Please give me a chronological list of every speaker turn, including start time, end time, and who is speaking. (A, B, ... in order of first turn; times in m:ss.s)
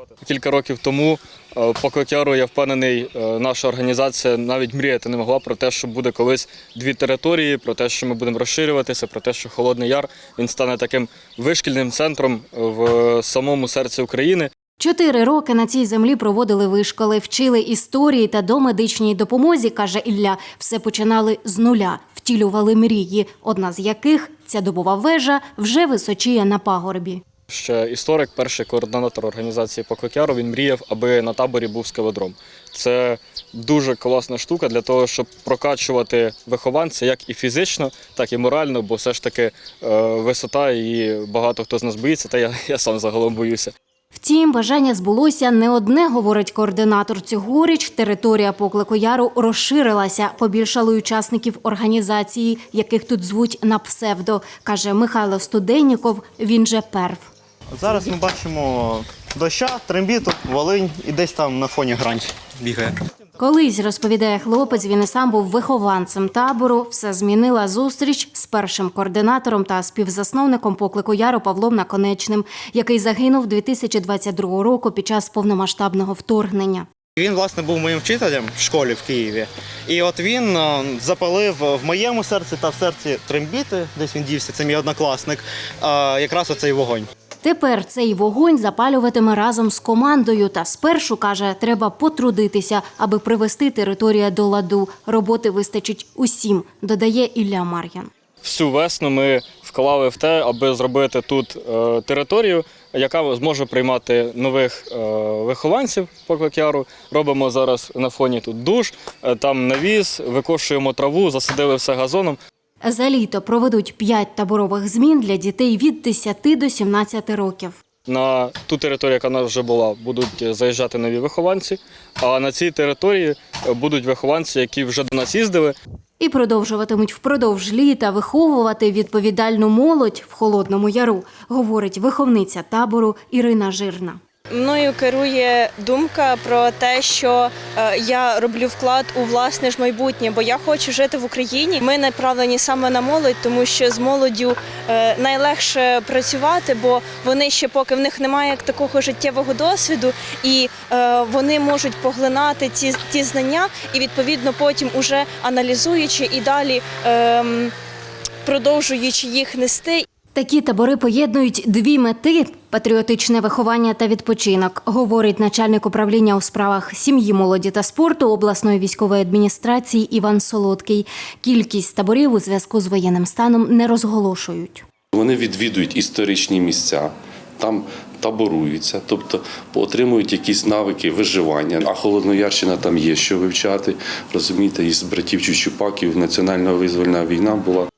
0:00.2-0:14.5 A
0:14.8-0:27.2 B
0:27.5-0:43.7 A
0:44.1-0:57.3 B
0:57.7-1:03.0 C
1:03.4-1:16.9 B
1:17.2-1:27.1 C
1:27.4-1:38.1 B
1:38.4-1:52.4 A
1:52.8-1:57.8 B
1:58.1-2:05.8 A
2:06.2-2:14.2 B
2:14.5-2:37.7 D
2:38.4-2:40.1 D
2:40.3-2:54.8 B
2:55.1-3:07.9 E